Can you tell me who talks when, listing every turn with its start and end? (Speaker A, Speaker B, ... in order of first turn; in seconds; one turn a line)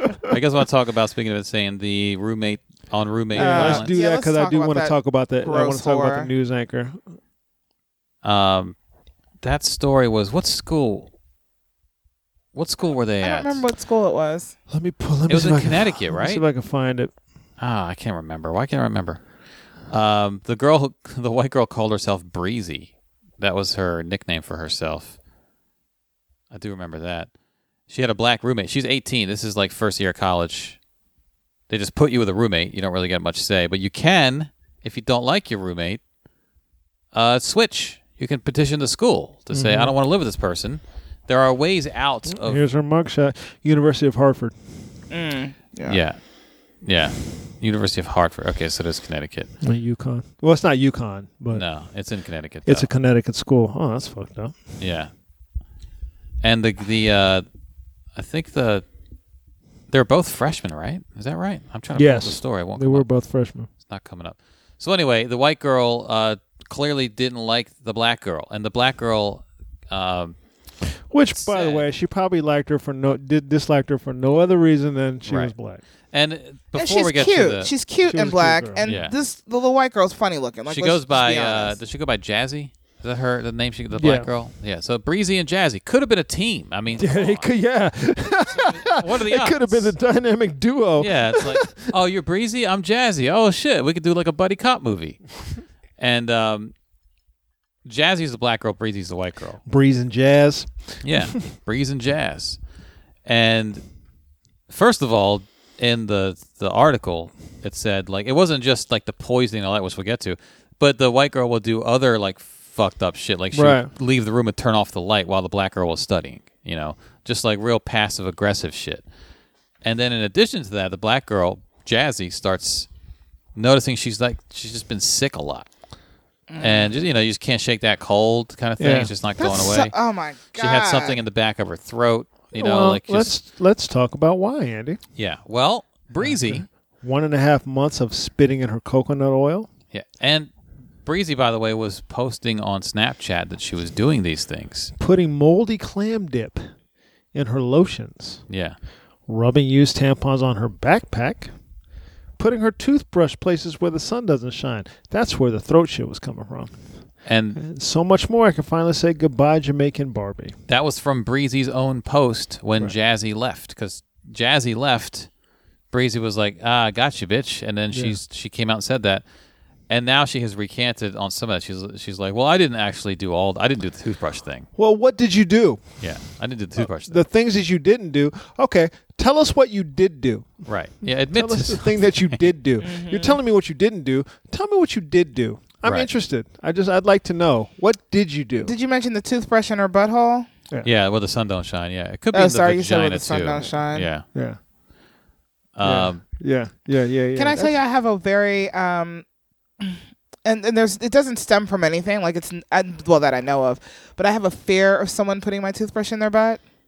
Speaker A: 0.3-3.9
Speaker B: 3.4-7.0
Speaker C: 3.4-6.3
Speaker A: 8.2-8.8
Speaker A: 9.4-11.1
Speaker A: 12.5-13.6
Speaker C: 13.2-14.5
Speaker B: 14.7-17.1
Speaker A: 15.3-16.4
Speaker A: 17.6-19.2
Speaker A: 19.9-25.2
Speaker A: 26.5-27.3
Speaker A: 27.9-30.8
Speaker A: 31.7-36.0
Speaker A: 37.1-42.6
Speaker B: 39.5-40.0
Speaker B: 42.3-44.5
Speaker C: 45.1-46.0
Speaker A: 45.9-46.2
Speaker A: 46.8-49.5
Speaker B: 49.6-51.6
Speaker A: 51.5-52.9
Speaker B: 52.7-54.6
Speaker A: 54.8-55.1
Speaker A: 56.4-57.5
Speaker A: 58.1-58.8
Speaker A: 59.9-63.1
Speaker B: 61.9-63.7
Speaker A: 63.8-70.4
Speaker B: 71.1-75.8
Speaker A: 71.3-71.8
Speaker A: 75.3-75.5
Speaker A: 76.1-77.7
Speaker C: 76.8-81.8
Speaker B: 78.0-78.9
Speaker A: 78.8-79.1
Speaker A: 80.7-87.5
Speaker B: 84.0-84.3
Speaker B: 87.0-91.9
Speaker A: 88.5-89.9
Speaker A: 91.0-95.2
Speaker A: 96.0-96.7
Speaker A: 97.8-99.6
Speaker B: 99.7-101.0
Speaker A: 101.0-102.6
Speaker A: 103.3-103.8
Speaker A: 104.7-119.0
Speaker B: 113.5-113.9
Speaker A: 119.8-122.9
Speaker A: 123.6-125.7
Speaker C: 126.5-126.9
Speaker A: 126.6-129.9
Speaker B: 128.8-129.1
Speaker C: 129.4-131.2
Speaker A: 130.5-133.3
Speaker B: 132.5-135.0
Speaker A: 135.2-136.7
Speaker B: 136.2-139.7
Speaker A: 139.9-140.5
Speaker A: 141.1-144.9
Speaker B: 145.0-146.7
Speaker B: 147.3-148.4
Speaker A: 148.5-148.8
Speaker B: 149.3-151.5
Speaker B: 152.4-156.8
Speaker A: 157.2-157.6
Speaker B: 157.6-160.6
Speaker A: 160.7-165.3
Speaker A: 165.9-169.2
Speaker B: 167.9-168.2
Speaker A: 169.9-174.7
Speaker B: 174.8-175.8
Speaker A: 176.0-177.2
Speaker B: 177.1-180.6
Speaker A: 180.7-182.4
Speaker B: 181.3-188.7
Speaker C: 182.8-183.4
Speaker A: 185.8-186.1
Speaker C: 188.6-190.5
Speaker A: 190.8-194.3
Speaker C: 192.3-194.1
Speaker B: 194.3-194.6
Speaker A: 195.8-196.2
Speaker B: 195.8-197.8
Speaker C: 197.4-199.2
Speaker C: 199.8-206.6